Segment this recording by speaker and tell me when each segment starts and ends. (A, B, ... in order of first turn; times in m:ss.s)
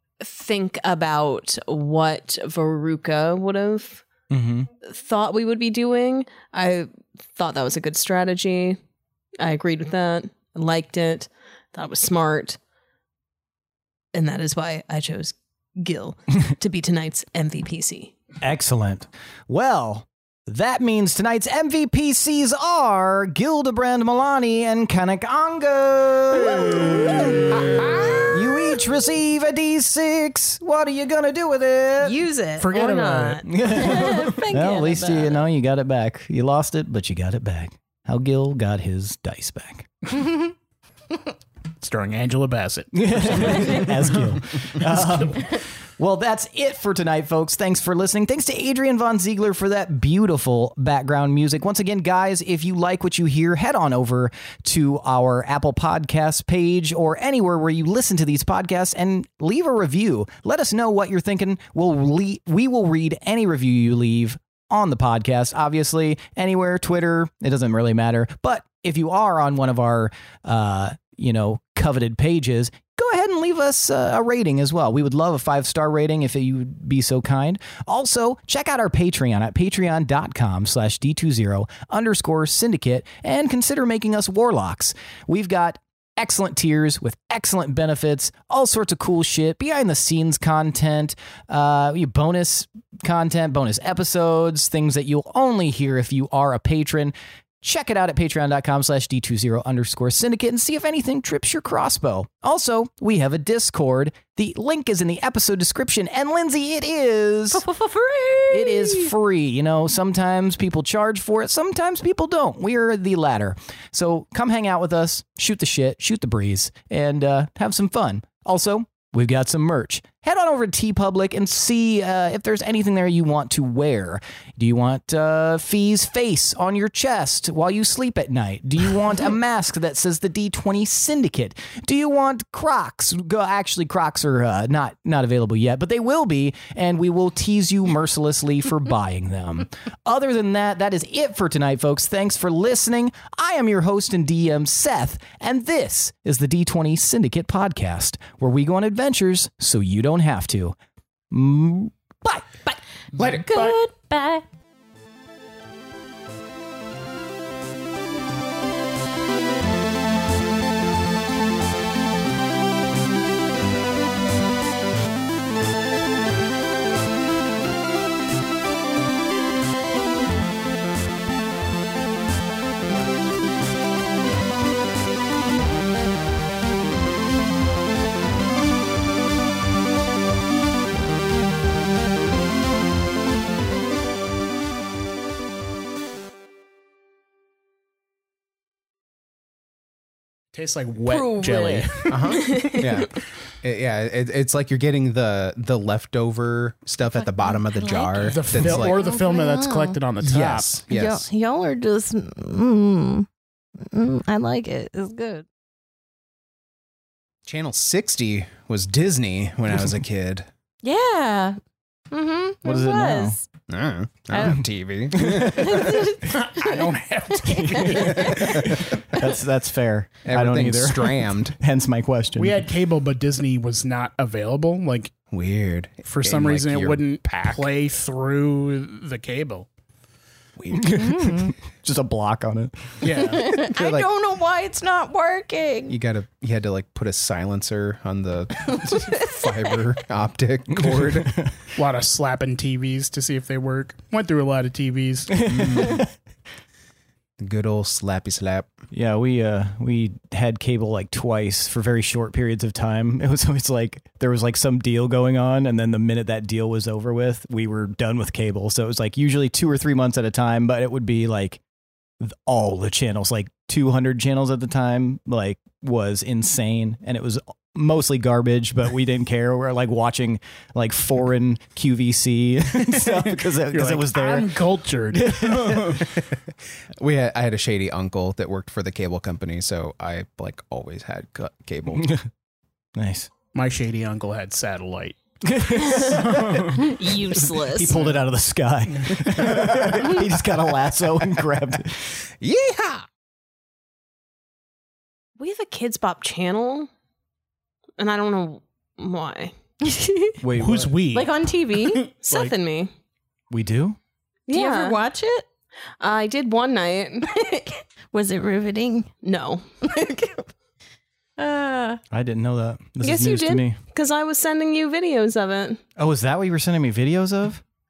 0:00.2-0:04.0 A
0:04.3-0:04.7 B
0:04.8-0:08.8 A
0:09.4-0:12.6 A
0:14.1-0:18.1 A
0:18.4-0:27.6 B
0:26.6-0:27.4 A
0:28.3-0:32.2 B
0:32.0-0:33.5 A
0:32.6-0:33.4 C
0:33.4-0:39.9 B
0:33.6-0:35.4 D
0:41.8-0:45.4 C
0:42.9-1:47.6 B
1:47.5-1:49.1 D
1:48.5-2:30.8 B
2:31.3-2:32.7 B
2:33.2-2:33.7 E
2:33.2-2:33.7 C
2:33.5-2:34.4 D
3:10.5-3:12.7 C
3:11.0-3:12.8 A
3:12.1-3:19.1 E
3:17.2-3:20.0 D
3:18.3-3:20.7 C
3:20.2-3:21.2 E
3:20.9-3:23.3 D
3:23.8-3:25.4 D
3:27.4-3:30.4 E
3:30.8-3:31.6 D
3:32.1-3:33.4 D
3:32.6-3:33.4 B
3:33.7-3:36.0 E
3:34.3-3:34.6 D
3:35.1-3:36.0 B
3:35.4-3:38.7 D
3:36.2-3:38.2 C
3:37.6-3:42.6 B
3:38.1-3:38.8 E
3:40.2-3:41.6 E
3:42.4-3:45.1 C
3:45.3-3:47.7 E
3:46.0-3:49.7 C
3:50.6-3:50.8 E
3:50.7-3:53.3 B
3:50.9-3:51.5 D
3:53.0-3:53.6 C
3:53.2-3:56.0 D
3:53.6-3:54.1 E
3:55.9-4:01.4 E
3:58.7-3:59.6 D
4:00.7-4:01.5 B
4:01.7-4:05.5 C
4:05.4-4:06.1 B
4:05.4-4:06.0 E
4:07.4-4:08.7 E
4:08.9-4:21.6 B
4:22.2-4:34.5 B
4:33.7-4:36.1 C
4:35.1-4:36.0 B
4:37.0-4:42.1 E
4:41.9-4:42.3 B
4:42.9-4:43.3 B
4:43.5-4:45.2 C
4:45.4-4:46.8 B
4:46.0-4:46.9 C
4:46.8-4:48.0 A
4:47.4-4:52.2 B
4:52.4-4:53.0 E
4:55.4-4:56.9 A
4:58.0-4:59.5 A
4:59.8-5:00.4 D
5:00.4-5:01.0 B
5:00.6-5:02.5 C
5:01.1-5:02.1 D
5:02.2-5:02.9 A
5:03.5-5:04.0 B
5:04.5-5:05.0 A
5:04.5-5:05.4 D
5:06.0-5:07.3 A
5:07.2-5:09.1 D
5:09.2-5:10.0 A
5:09.8-5:10.4 D
5:11.4-5:12.0 D
5:12.1-5:13.8 B
5:13.0-5:15.8 A
5:16.0-5:17.6 B